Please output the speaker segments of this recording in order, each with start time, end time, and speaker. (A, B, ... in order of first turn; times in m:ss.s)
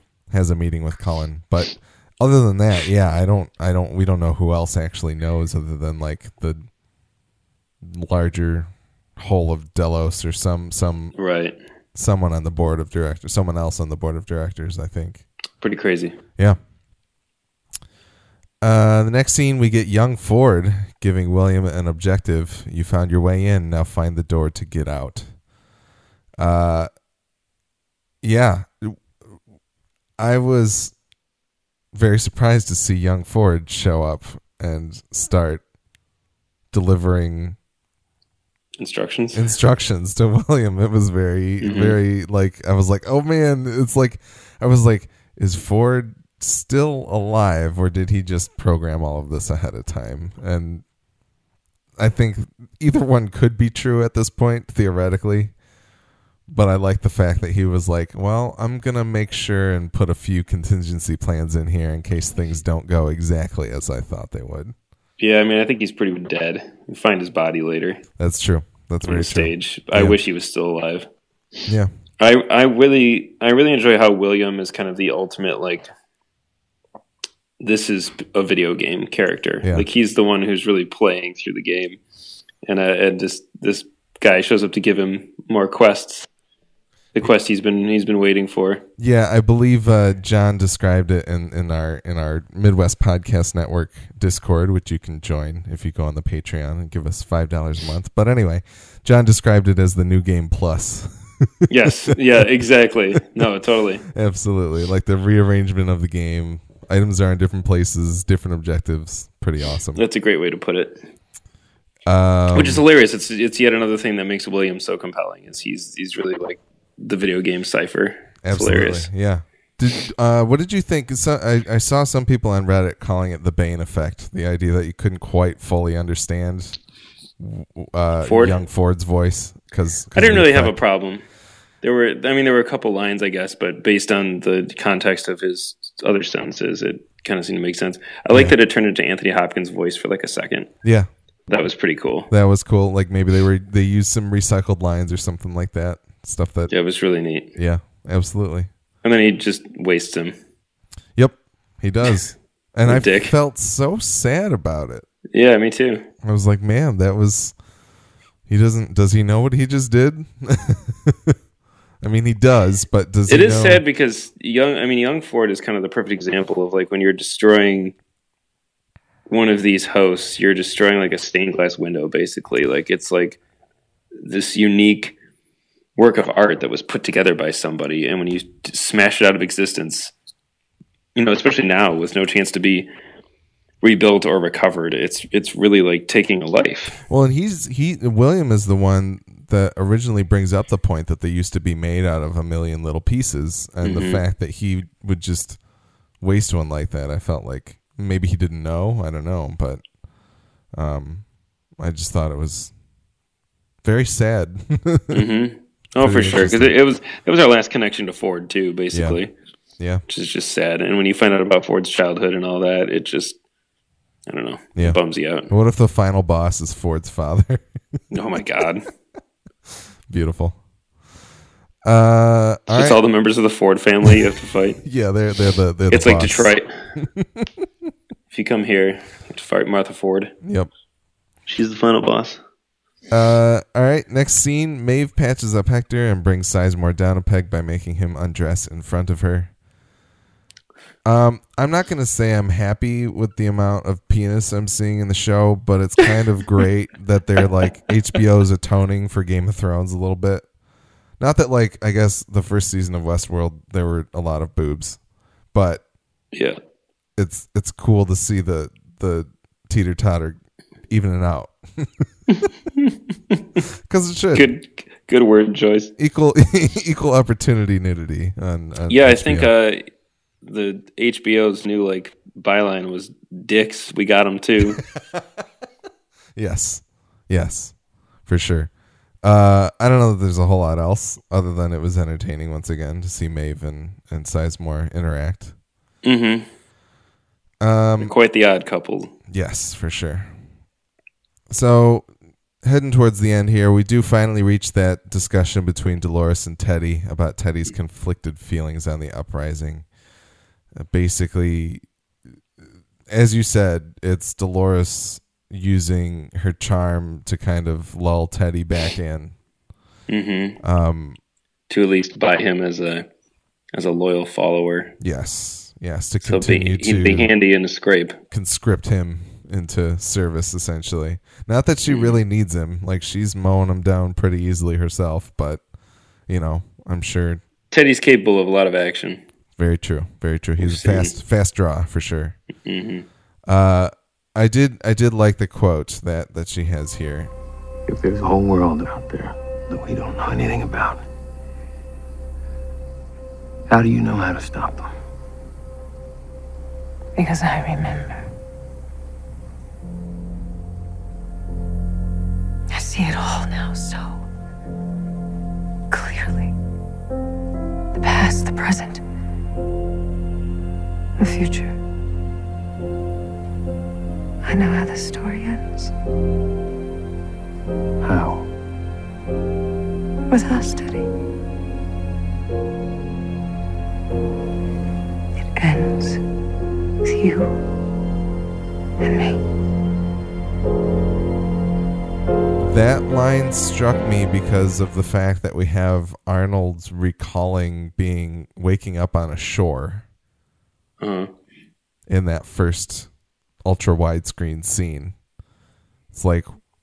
0:00.3-0:06.7 A
0:07.8-0:11.2 A
0:11.2-0:11.6 B
0:12.0-0:15.2 A
0:15.6-0:16.2 B
0:18.6-0:25.3 A
0:26.4-0:26.9 A
0:28.2-0:29.2 A
0:30.2-0:31.0 A
0:31.9-0:35.6 A
0:36.7-0:37.6 A
0:38.8-0:39.4 B
0:39.3-0:50.8 A
0:41.6-0:42.0 B
0:52.0-0:55.5 A
0:56.5-1:04.7 A
1:05.2-1:08.0 B
1:08.2-1:10.2 A
1:09.0-1:11.1 B
1:12.2-1:15.9 B
1:17.6-1:22.0 B
1:22.6-1:26.3 B
1:27.2-1:28.8 B
1:29.0-1:42.1 A
1:41.7-1:44.0 B
1:44.1-1:50.0 A
1:50.0-1:51.0 B
1:52.1-1:52.8 A
1:52.5-1:59.1 B
1:58.4-2:06.8 A
2:07.4-2:10.8 A
2:08.2-2:08.6 B
2:10.2-2:11.2 B
2:11.8-2:20.7 B
2:21.5-2:22.3 B
2:22.3-2:26.7 A
2:26.7-2:27.5 B
2:27.6-2:28.7 A
2:29.0-2:30.4 B
2:31.2-2:35.1 A
2:32.8-2:33.3 B
2:35.3-2:36.1 B
2:36.2-2:37.5 A
2:38.5-2:41.3 A
2:42.0-2:43.8 A
2:43.3-2:48.0 B
2:49.3-2:53.4 B
2:54.2-2:55.2 B
2:56.0-3:00.1 B
3:01.2-3:02.9 B
3:03.8-3:07.0 B
3:07.1-3:15.6 A
3:13.8-3:14.2 B
3:16.2-3:19.8 A
3:20.7-3:21.3 A
3:21.8-3:22.7 A
3:23.8-3:25.3 A
3:25.1-3:29.3 B
3:26.0-3:26.8 A
3:28.9-3:29.2 A
3:30.1-3:33.4 B
3:34.3-3:35.5 B
3:34.8-3:38.0 A
3:38.1-3:38.9 B
3:40.1-3:40.6 A
3:41.8-3:43.0 A
3:42.7-3:44.8 B
3:44.8-3:47.5 A
3:45.9-3:46.7 B
3:48.3-3:50.3 B
3:50.4-3:50.7 A
3:51.5-3:52.4 B
3:53.1-3:59.5 A
4:01.0-4:10.4 A
4:11.2-4:15.0 A
4:15.5-4:15.8 A
4:16.3-4:16.6 B
4:17.2-4:22.1 A
4:22.3-4:23.6 B
4:23.9-4:24.5 A
4:24.3-4:25.9 B
4:26.0-4:29.5 A
4:28.9-4:29.8 B
4:30.4-4:34.8 B
4:35.0-4:35.2 A
4:36.4-4:38.7 A
4:39.2-4:45.5 A
4:46.0-4:46.5 B
4:47.6-4:48.1 A
4:48.0-4:49.1 B
4:49.3-4:50.3 A
4:51.5-4:52.1 A
4:52.6-4:59.9 A
5:00.8-5:01.8 A
5:03.1-5:09.4 A
5:10.1-5:10.6 B
5:10.6-5:11.2 A
5:11.7-5:13.1 B
5:13.7-5:14.9 B
5:15.0-5:17.3 A
5:16.2-5:18.2 B
5:18.3-5:25.6 A
5:21.9-5:22.2 B
5:26.3-5:27.4 A
5:27.7-5:29.2 B
5:29.6-5:32.4 A
5:30.6-5:31.2 B
5:32.6-5:33.1 B
5:33.5-5:37.3 A
5:37.9-5:41.1 C
5:43.7-5:44.9 C
5:47.2-5:48.3 D
5:52.7-5:54.2 D
5:55.9-5:56.5 D
5:57.9-5:59.0 D
6:01.2-6:01.8 D
6:04.4-6:05.9 D
6:08.0-6:08.5 C
6:10.3-6:11.1 D
6:15.6-6:16.2 D
6:17.0-6:17.6 D
6:19.0-6:19.4 D
6:22.6-6:30.0 A
6:31.0-6:31.3 B
6:32.1-6:33.1 A
6:33.6-6:35.2 A
6:36.1-6:36.5 A